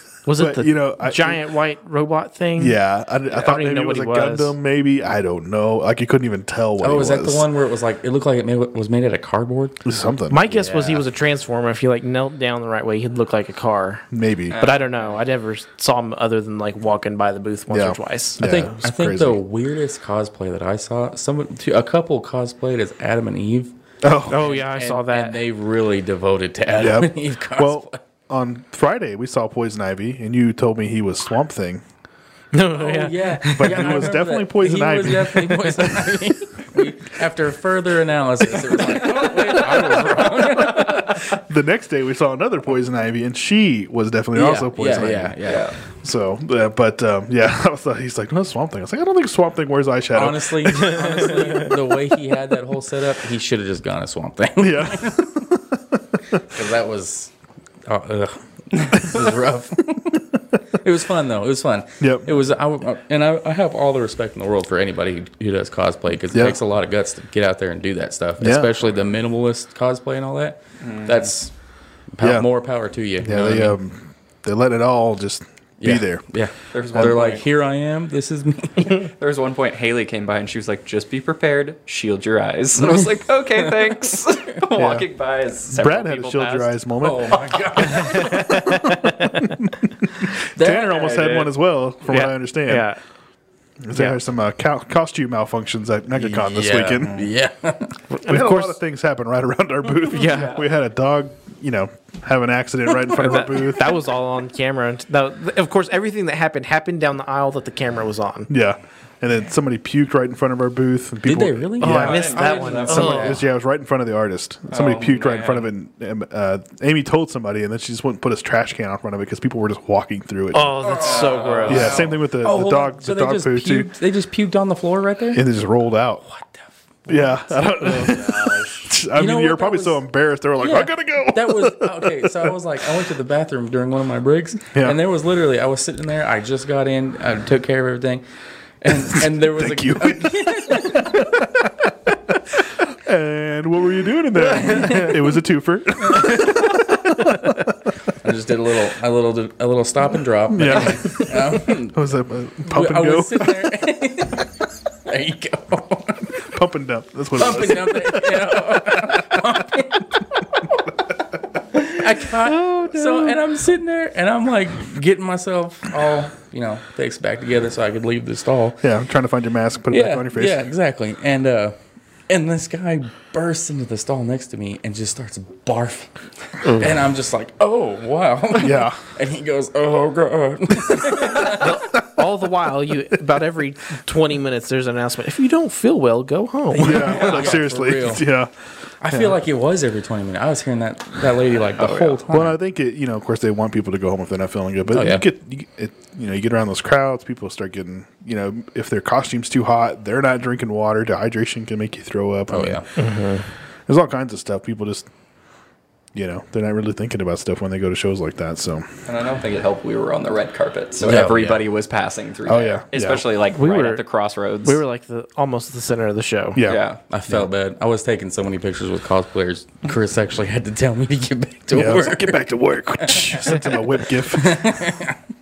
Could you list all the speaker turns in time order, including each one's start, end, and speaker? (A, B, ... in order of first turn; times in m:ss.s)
0:00.2-0:04.5 A
0:00.3-0:01.4 B
0:02.6-0:07.5 B
0:06.8-0:09.8 C
0:09.8-0:10.4 B
0:10.3-0:14.0 A
0:10.5-0:11.0 C
0:14.1-0:14.6 B
0:14.5-0:15.2 D
0:14.6-0:18.4 A
0:17.7-0:19.4 B
0:18.4-0:23.7 C
0:24.0-0:24.5 B
0:24.3-0:25.4 A
0:24.3-0:28.0 C
0:26.7-0:31.8 B
0:32.5-0:33.8 A
0:32.8-0:41.3 C
0:33.5-0:36.1 B
0:39.8-0:45.4 B
0:44.3-0:45.7 C
0:45.4-0:45.8 D
0:46.0-0:51.6 B
0:50.1-0:55.3 C
0:54.6-0:56.4 B
0:56.4-0:57.3 C
0:57.8-1:11.5 C
1:02.0-1:02.3 B
1:06.3-1:06.6 B
1:08.4-1:08.7 B
1:10.8-1:11.3 D
1:12.1-1:13.8 C
1:12.2-1:12.5 B
1:13.2-1:16.2 B
1:15.8-1:19.1 C
1:16.7-1:17.4 D
1:18.9-1:26.7 D
1:24.8-1:25.0 B
1:25.7-1:32.9 B
1:27.0-1:28.8 C
1:28.1-1:29.4 A
1:30.6-1:31.5 C
1:30.6-1:31.4 D
1:32.1-1:33.0 A
1:33.8-1:37.2 B
1:36.2-1:38.0 C
1:38.1-1:38.8 A
1:38.2-1:44.0 B
1:40.1-1:40.6 A
1:40.2-1:40.6 D
1:43.1-1:48.5 A
1:48.5-2:00.8 B
1:51.2-1:53.3 C
1:51.8-1:53.4 A
1:51.8-1:53.4 D
1:54.7-1:55.7 D
2:00.5-2:02.0 A
2:00.8-2:05.4 C
2:01.0-2:02.0 D
2:01.7-2:03.9 B
2:05.3-2:06.2 B
2:06.2-2:08.2 C
2:07.1-2:12.5 B
2:08.0-2:08.8 D
2:09.1-2:10.0 C
2:10.6-2:18.2 C
2:14.7-2:15.0 B
2:18.8-2:21.4 C
2:19.5-2:27.7 B
2:24.6-2:25.1 C
2:26.2-2:26.5 C
2:28.2-2:32.0 C
2:30.5-2:33.7 B
2:32.7-2:34.5 C
2:35.0-2:36.5 C
2:36.5-2:39.4 B
2:37.4-2:40.8 C
2:41.8-2:48.8 C
2:42.7-2:43.0 B
2:48.8-2:50.6 B
2:49.9-2:51.8 C
2:52.3-3:01.8 C
2:56.6-2:56.9 A
2:58.6-2:59.0 B
3:01.4-3:07.2 A
3:06.8-3:08.2 C
3:06.8-3:08.5 B
3:09.0-3:12.6 C
3:11.8-3:12.2 D
3:12.3-3:22.8 B
3:14.9-3:15.2 C
3:22.5-3:22.9 C
3:23.0-3:23.4 A
3:23.9-3:25.1 B
3:26.1-3:29.0 B
3:29.0-3:34.8 D
3:31.0-3:31.6 C
3:32.5-3:33.2 B
3:33.5-3:34.0 A
3:34.6-3:36.6 A
3:36.5-3:37.5 B
3:36.6-3:37.0 D
3:37.1-3:42.5 C
3:41.7-3:44.8 B
3:43.0-3:45.2 C